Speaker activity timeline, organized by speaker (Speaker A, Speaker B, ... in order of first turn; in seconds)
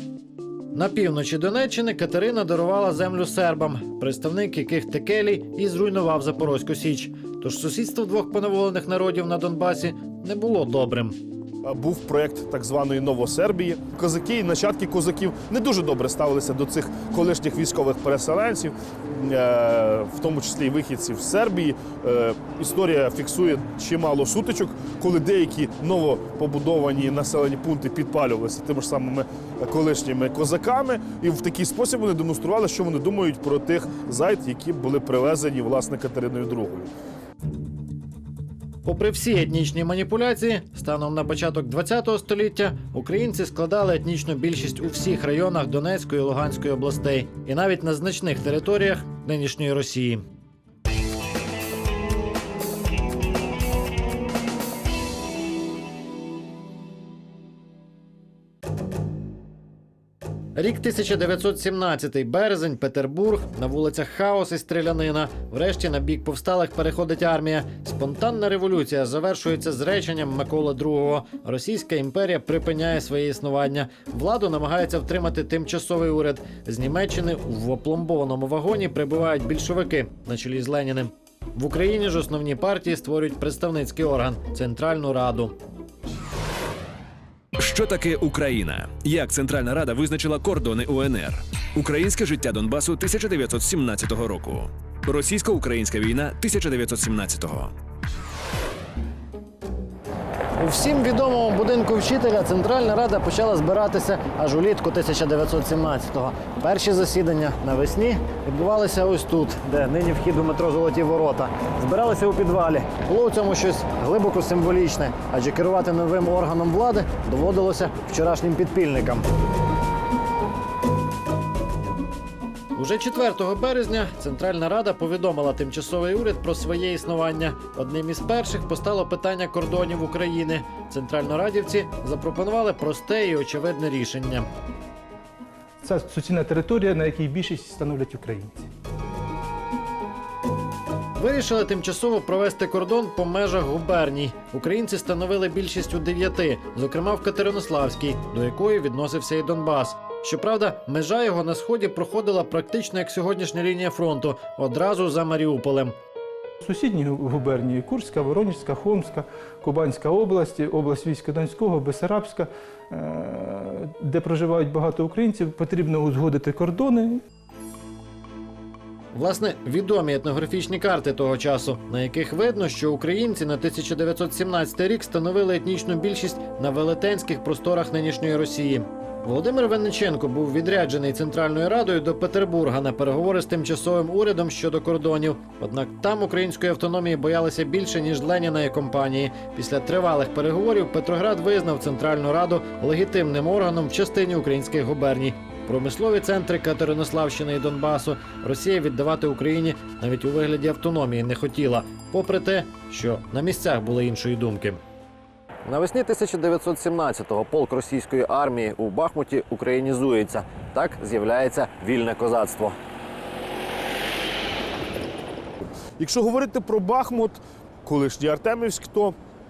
Speaker A: 0.7-11.2, 38.8-50.2, 60.5-85.6, 100.6-119.2, 122.7-134.5, 141.2-155.9, 169.1-204.8, 205.7-212.7
Speaker B: 11.6-36.9, 216.0-219.1
Speaker C: 87.6-97.7
Speaker D: 135.8-138.7, 156.6-167.2